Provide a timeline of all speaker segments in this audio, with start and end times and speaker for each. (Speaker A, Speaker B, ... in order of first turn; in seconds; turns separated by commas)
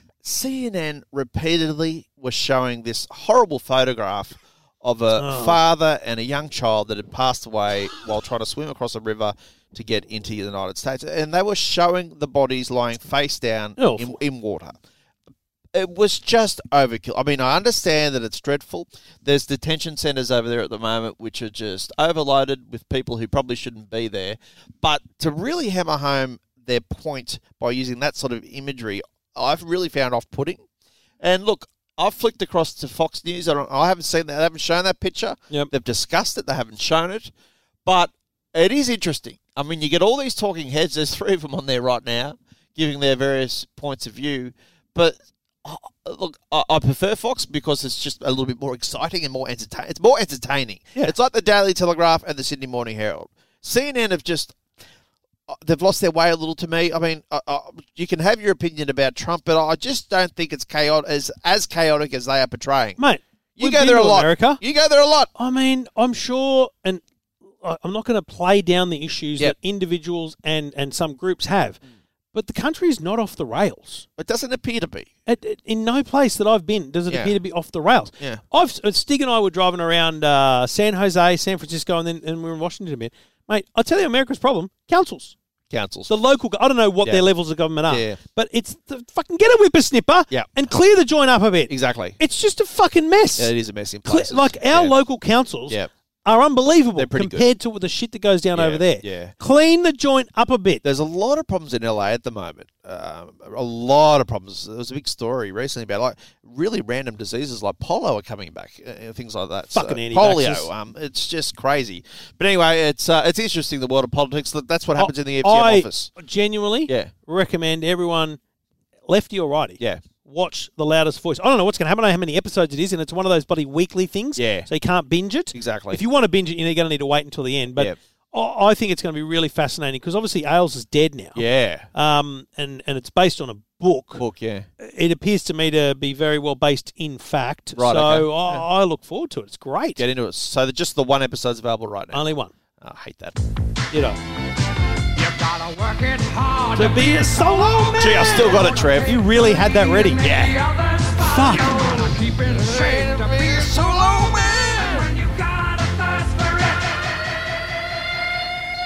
Speaker A: 0.2-14.8, Speaker B: 5.2-5.6, Speaker B: 13.8-14.2, Speaker A: 15.7-30.6, Speaker A: 31.2-37.3, Speaker A: 37.8-54.6, Speaker A: 55.5-63.0, Speaker B: 63.0-64.6, Speaker A: 63.6-65.3, Speaker B: 65.3-67.0, Speaker B: 67.6-71.8, Speaker B: 72.3-74.0, Speaker A: 74.2-75.1, Speaker B: 75.2-85.3, Speaker A: 85.7-86.1, Speaker B: 86.1-93.5, Speaker A: 87.9-88.2, Speaker A: 90.3-90.6, Speaker A: 91.7-92.2, Speaker A: 93.4-95.0, Speaker B: 94.0-100.8, Speaker A: 97.0-97.5, Speaker A: 98.5-99.3, Speaker A: 100.8-116.1, Speaker B: 109.7-110.7, Speaker B: 115.0-118.4, Speaker B: 119.1-131.4, Speaker A: 124.4-124.7, Speaker A: 125.5-126.0, Speaker A: 131.3-131.9, Speaker B: 131.9-134.2, Speaker A: 134.2-134.7, Speaker B: 134.8-140.0, Speaker A: 137.8-138.6, Speaker A: 140.0-143.4, Speaker B: 142.1-142.5, Speaker B: 143.9-144.2, Speaker C: 145.1-157.2, Speaker B: 146.7-150.2, Speaker A: 148.0-149.2, Speaker A: 150.2-150.6, Speaker B: 151.2-152.2, Speaker A: 152.4-155.1